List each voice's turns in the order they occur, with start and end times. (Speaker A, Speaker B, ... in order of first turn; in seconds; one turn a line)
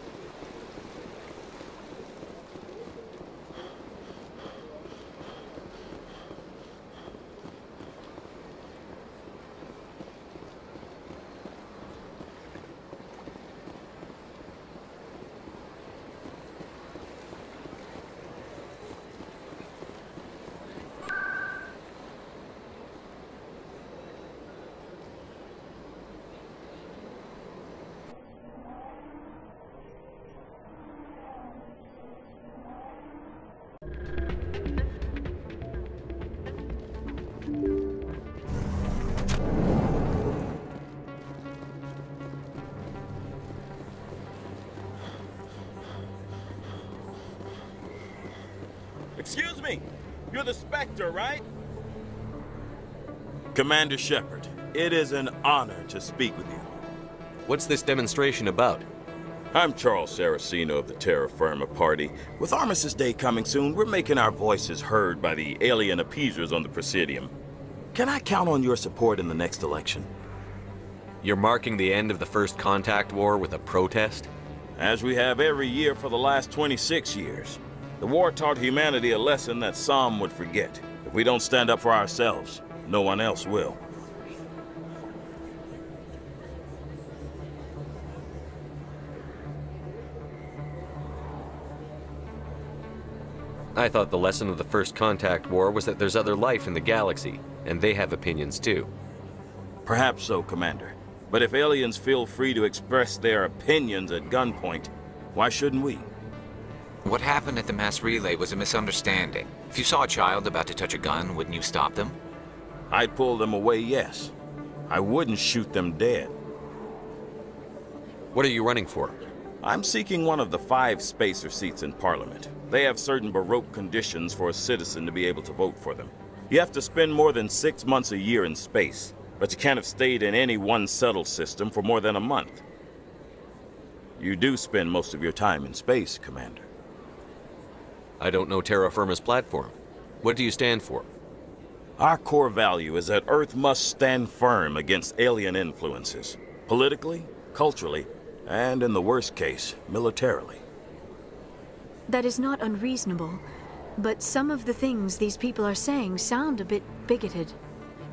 Speaker A: 49.2-51.4
Speaker A: 53.5-56.7
Speaker B: 57.5-58.9
Speaker A: 59.5-67.3
Speaker A: 67.9-70.1
Speaker B: 71.2-74.3
Speaker A: 74.8-83.8
Speaker B: 93.7-98.9
Speaker A: 99.8-106.1
Speaker C: 107.0-112.2
Speaker A: 112.9-114.3
Speaker A: 114.9-116.3
Speaker B: 118.3-119.2
Speaker A: 119.6-132.6
Speaker A: 134.2-136.7
Speaker B: 138.2-141.1
Speaker A: 142.0-150.6
Speaker D: 152.1-153.4
Speaker D: 154.0-157.6